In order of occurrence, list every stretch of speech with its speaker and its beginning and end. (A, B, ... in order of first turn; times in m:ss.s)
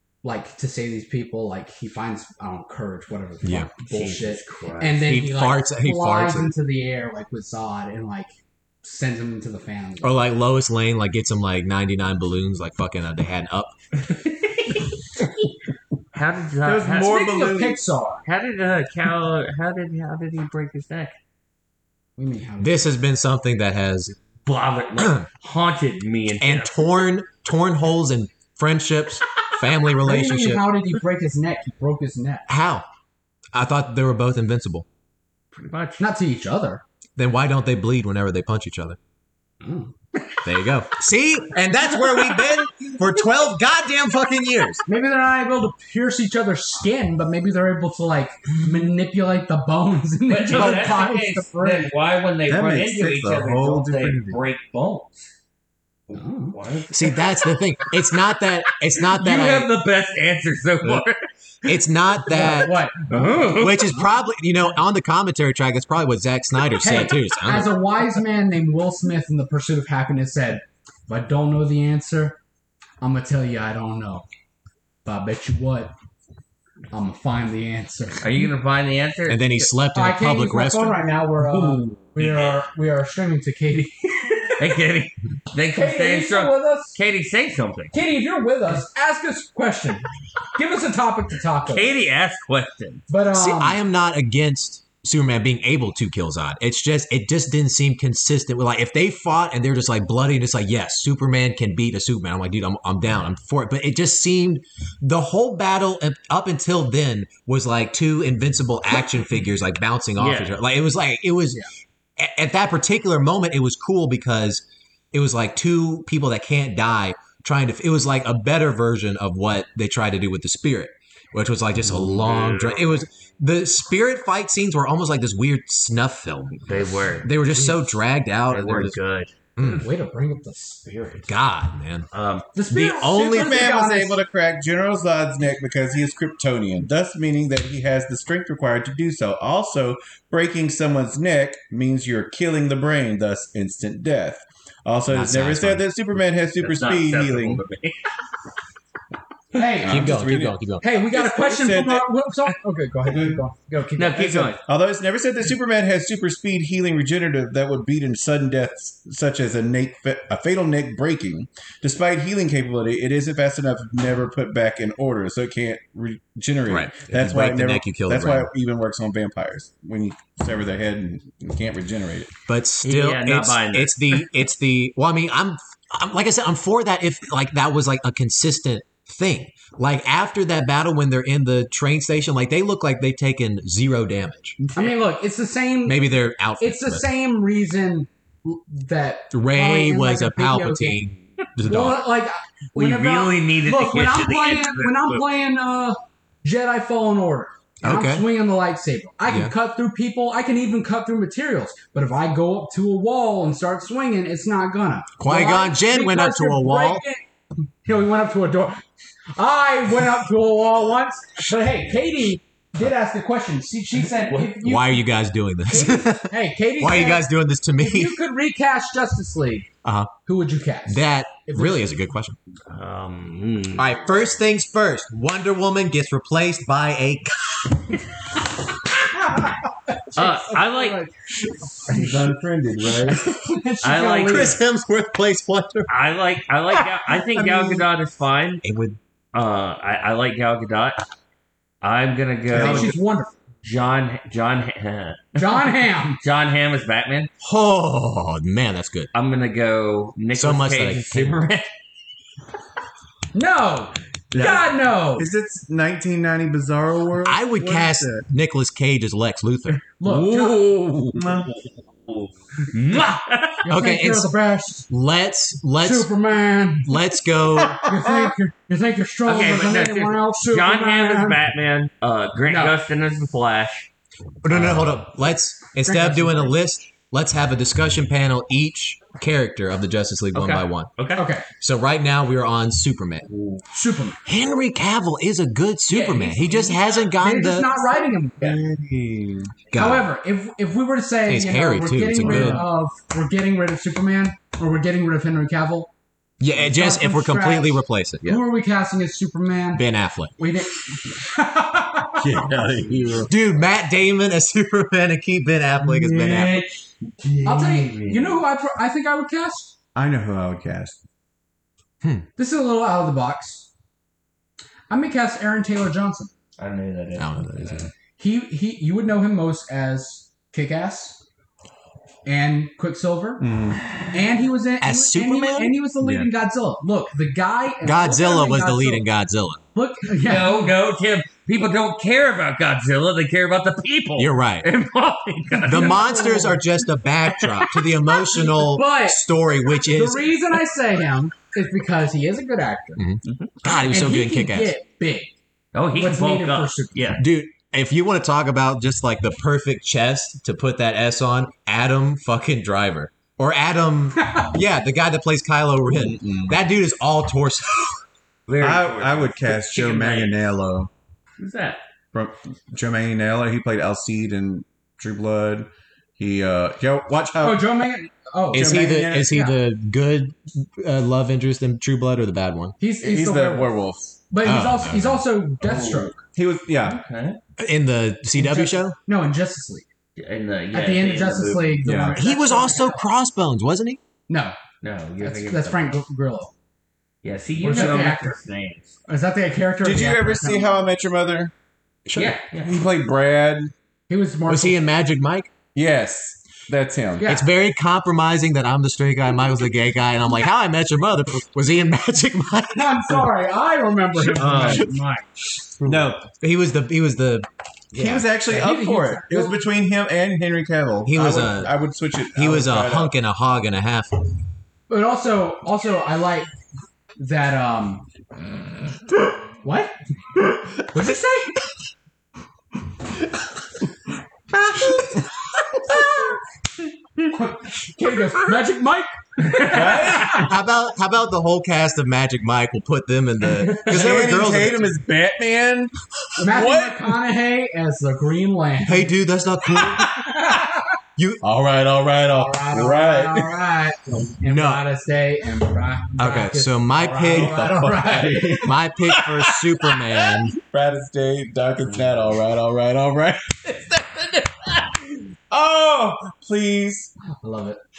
0:00.2-0:08.3 A
0:03.4-0:03.7 B
0:03.8-0:05.1 C
0:05.0-0:06.5 B
0:08.8-0:10.3 A
0:10.0-0:13.7 B
0:14.1-0:14.7 C
0:16.1-0:17.2 C
0:16.6-0:17.8 D
0:16.9-0:18.2 A
0:18.2-0:21.2 C
0:22.2-0:22.9 A
0:22.6-0:24.2 B
0:24.4-0:26.7 C
0:25.0-0:25.3 B
0:26.4-0:30.6 B
0:30.0-0:32.5 A
0:32.5-0:32.8 B
0:33.5-0:34.8 B
0:35.5-0:36.1 C
0:36.0-0:36.8 A
0:37.2-0:39.0 B
0:39.6-0:39.9 A
0:40.4-0:44.8 B
0:44.8-0:51.9 A
0:50.3-0:55.3 C
0:52.5-0:54.4 D
0:56.1-0:57.9 C
0:56.1-0:56.6 A
0:56.9-0:59.7 B
0:59.0-1:01.8 C
1:01.6-1:02.8 B
1:02.2-1:03.5 A
1:02.4-1:04.0 C
1:03.5-1:07.7 B
1:06.7-1:12.4 A
1:13.0-1:14.2 A
1:15.0-1:15.9 A
1:16.9-1:18.4 A
1:18.2-1:19.7 C
1:19.3-1:21.0 B
1:19.9-1:24.7 A
1:21.4-1:22.6 C
1:24.6-1:27.9 C
1:25.7-1:27.0 A
1:27.9-1:31.9 A
1:31.6-1:33.0 C
1:33.1-1:33.8 A
1:33.3-1:51.6 B
1:50.2-1:50.6 C
1:52.2-2:06.6 B
2:01.9-2:03.0 C
2:06.6-2:07.8 C
2:07.2-2:09.0 B
2:08.5-2:09.3 C
2:09.6-2:09.8 B
2:09.6-2:11.3 A
2:11.3-2:12.1 B
2:12.1-2:12.5 C
2:12.5-2:14.2 A
2:12.7-2:13.6 B
2:13.2-2:27.6 D
2:25.1-2:25.9 B
2:26.6-2:28.0 C
2:29.5-2:30.2 A
2:29.6-2:32.0 D
2:29.8-2:30.9 B
2:30.8-2:34.5 A
2:33.0-2:33.4 D
2:34.0-2:34.6 C
2:34.2-2:52.3 D
2:46.7-2:48.5 B
2:52.5-3:04.6 B
2:52.8-2:54.1 C
3:04.7-3:11.0 A
3:05.8-3:07.0 B
3:09.3-3:12.1 B
3:11.6-3:27.2 A
3:12.7-3:15.2 C
3:17.8-3:18.3 B
3:19.3-3:19.5 B
3:25.2-3:27.0 B
3:27.8-3:28.8 A
3:29.4-3:35.0 A
3:34.6-3:38.2 B
3:35.7-3:37.3 A
3:37.8-3:39.7 A
3:39.8-3:40.1 B
3:40.2-3:41.9 A
3:40.8-3:42.4 B
3:42.7-3:44.1 C
3:43.8-3:48.0 B
3:49.9-3:51.1 A
3:50.1-3:51.0 C
3:51.8-3:53.3 D
3:53.0-3:54.6 A
3:53.8-3:54.6 C
3:54.2-3:55.9 B
3:55.9-3:58.6 C
3:57.3-3:57.9 D
3:58.6-3:59.0 B
3:59.3-4:01.0 C
4:01.8-4:02.9 C
4:02.5-4:03.0 D
4:02.5-4:03.3 A
4:03.6-4:05.7 C
4:05.4-4:06.2 A
4:06.2-4:07.3 C
4:07.4-4:09.1 B
4:09.1-4:11.7 C
4:10.3-4:11.4 B
4:13.3-4:15.3 A
4:14.3-4:18.2 D
4:17.2-4:19.8 B
4:20.0-4:20.8 A
4:20.1-4:21.2 C
4:21.1-4:21.5 D
4:22.1-4:23.7 C
4:23.6-4:24.9 A
4:23.7-4:24.3 B
4:24.9-4:26.1 B
4:25.8-4:27.1 A
4:26.8-4:27.8 B
4:27.7-4:31.4 A
4:27.9-4:28.3 D
4:29.2-4:33.9 C
4:32.5-4:32.8 A
4:34.4-4:40.9 B
4:34.5-4:35.0 C
4:35.8-4:36.5 A
4:40.3-4:41.2 C
4:41.2-4:41.5 A
4:41.6-4:43.3 B
4:43.3-4:43.6 C
4:43.7-4:44.2 A
4:44.2-4:47.7 B
4:45.9-4:47.1 C
4:47.1-4:48.5 A
4:48.4-4:49.5 D
4:49.7-4:50.0 B
4:49.7-4:55.9 A
4:51.2-4:52.7 B
4:52.2-4:52.7 D
4:56.4-4:58.4 B
4:56.6-4:59.8 A
4:59.7-5:00.3 B
5:00.4-5:02.2 A
5:02.2-5:03.3 D
5:02.8-5:03.2 C
5:03.3-5:06.6 B
5:06.0-5:06.6 C
5:06.0-5:06.6 D
5:07.2-5:08.4 C
5:07.4-5:09.7 A
5:09.9-5:11.0 D
5:12.4-5:13.7 A
5:14.9-5:16.3 A
5:16.6-5:17.9 C
5:17.2-5:17.9 B
5:18.2-5:21.2 A
5:22.2-5:23.4 A
5:23.4-5:23.8 D
5:24.1-5:29.0 A
5:24.8-5:26.3 B
5:27.8-5:29.6 B
5:29.7-5:30.7 A
5:30.1-5:36.1 C
5:34.2-5:34.7 B
5:35.6-5:36.6 A
5:35.6-5:40.3 B
5:37.4-5:37.7 C
5:38.1-5:39.2 A
5:39.8-5:43.0 A
5:43.0-5:44.7 B
5:43.6-5:45.3 A
5:45.7-5:47.2 C
5:45.9-5:47.1 A
5:47.2-5:58.0 B
5:54.2-5:54.5 A
5:55.9-5:56.6 D
5:58.5-6:00.4 C
5:58.6-6:00.9 D
6:01.4-6:01.8 C
6:02.1-6:07.7 D
6:07.4-6:09.6 A
6:08.5-6:09.3 D
6:08.5-6:12.8 B
6:12.8-6:13.8 A
6:13.0-6:14.2 D
6:14.3-6:16.2 A
6:14.4-6:15.2 B
6:15.6-6:16.1 C
6:15.8-6:17.0 D
6:16.8-6:17.4 C
6:17.6-6:18.9 B
6:18.4-6:19.8 A
6:20.2-6:22.1 C
6:20.7-6:23.0 A
6:21.8-6:22.2 D
6:22.1-6:24.0 B
6:24.3-6:24.6 A
6:24.8-6:25.9 C
6:25.2-6:26.5 A
6:27.2-6:28.9 C
6:27.6-6:28.4 A
6:27.7-6:28.0 D
6:29.0-6:30.7 A
6:29.8-6:31.5 D
6:32.0-6:32.3 B
6:32.1-6:32.7 C
6:32.6-6:33.7 D
6:34.1-6:34.8 A
6:34.5-6:35.5 B
6:35.7-6:37.3 D
6:37.2-6:37.5 A
6:37.3-6:43.3 B
6:42.7-6:45.2 A
6:44.2-6:44.9 D
6:44.4-6:44.8 C
6:45.8-6:46.3 D
6:46.4-6:48.2 B
6:47.9-6:53.1 D
6:48.4-6:49.6 A
6:51.0-6:51.7 B
6:52.3-6:54.1 B
6:54.9-6:56.5 A
6:57.2-6:58.0 A
6:59.6-6:59.9 A
7:00.8-7:01.6 A
7:07.3-7:10.5 A
7:09.5-7:10.4 C
7:09.6-7:10.5 D
7:10.3-7:14.9 B
7:13.8-7:17.1 D
7:16.4-7:19.1 A
7:18.8-7:20.2 B
7:20.0-7:20.9 A
7:21.4-7:23.5 D
7:22.3-7:28.8 A
7:24.4-7:24.8 B
7:26.2-7:27.7 B
7:27.3-7:29.6 D
7:28.6-7:30.5 B
7:30.4-7:35.0 D
7:35.5-7:37.1 D
7:37.4-7:37.8 A